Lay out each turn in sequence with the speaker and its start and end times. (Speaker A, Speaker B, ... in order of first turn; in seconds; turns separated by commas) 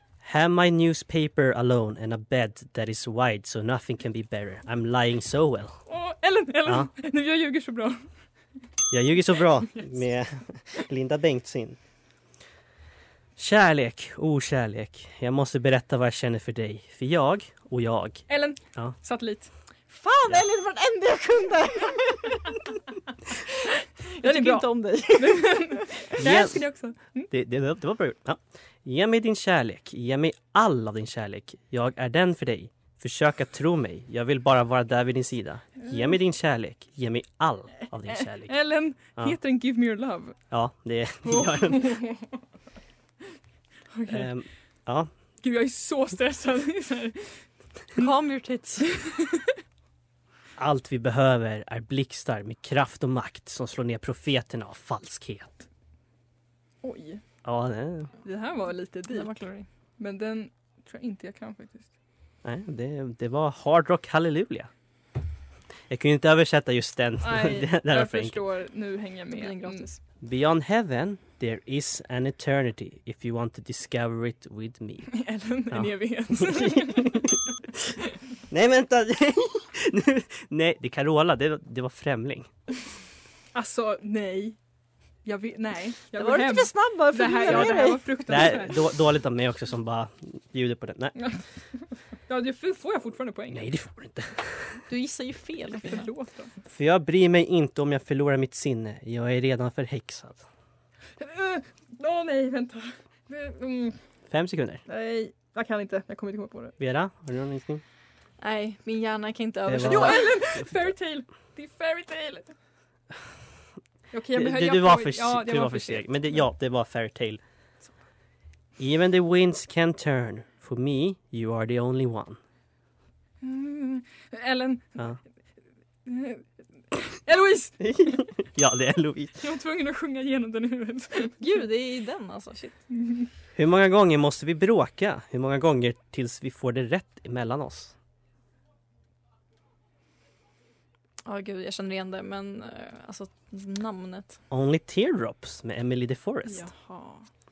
Speaker A: 0.2-5.8, Speaker B: 5.9-8.1, Speaker A: 8.9-11.8, Speaker A: 13.4-18.2, Speaker B: 18.3-19.5, Speaker C: 19.9-22.5, Speaker C: 24.2-26.1, Speaker B: 24.2-27.3, Speaker A: 26.2-26.6, Speaker A: 27.3-38.5, Speaker B: 35.8-36.2, Speaker B: 38.1-40.4, Speaker A: 40.5-42.0, Speaker B: 41.2-42.4, Speaker B: 43.9-44.3, Speaker A: 44.1-45.1, Speaker B: 45.4-47.4, Speaker C: 48.0-48.9, Speaker A: 50.6-55.6, Speaker B: 56.8-57.2, Speaker A: 57.4-58.1, Speaker B: 58.2-59.4, Speaker C: 59.1-59.7, Speaker B: 60.0-61.9, Speaker A: 62.4-64.7, Speaker A: 65.9-68.4, Speaker B: 67.2-69.9, Speaker C: 69.3-70.0, Speaker A: 70.2-75.2, Speaker B: 75.1-77.3, Speaker A: 75.7-77.4, Speaker A: 78.5-82.5, Speaker B: 83.5-84.6, Speaker B: 85.2-88.8, Speaker C: 86.1-88.0, Speaker A: 87.5-91.2, Speaker B: 92.3-93.7, Speaker A: 93.5-94.8, Speaker C: 94.9-96.1, Speaker B: 95.8-96.5, Speaker A: 96.7-100.4, Speaker B: 101.2-104.0, Speaker A: 104.3-104.8, Speaker B: 104.9-106.8, Speaker A: 106.8-107.8, Speaker C: 108.4-110.4, Speaker A: 109.7-110.8, Speaker B: 109.8-112.5, Speaker B: 114.1-116.5, Speaker A: 114.3-117.4, Speaker A: 118.8-122.4, Speaker B: 123.4-125.0, Speaker B: 126.0-126.5, Speaker B: 127.0-128.2, Speaker A: 127.8-129.4, Speaker B: 129.4-131.4, Speaker C: 131.4-132.8, Speaker B: 132.9-133.3, Speaker A: 133.6-137.9, Speaker C: 141.2-144.4, Speaker A: 144.5-146.7, Speaker B: 146.5-147.3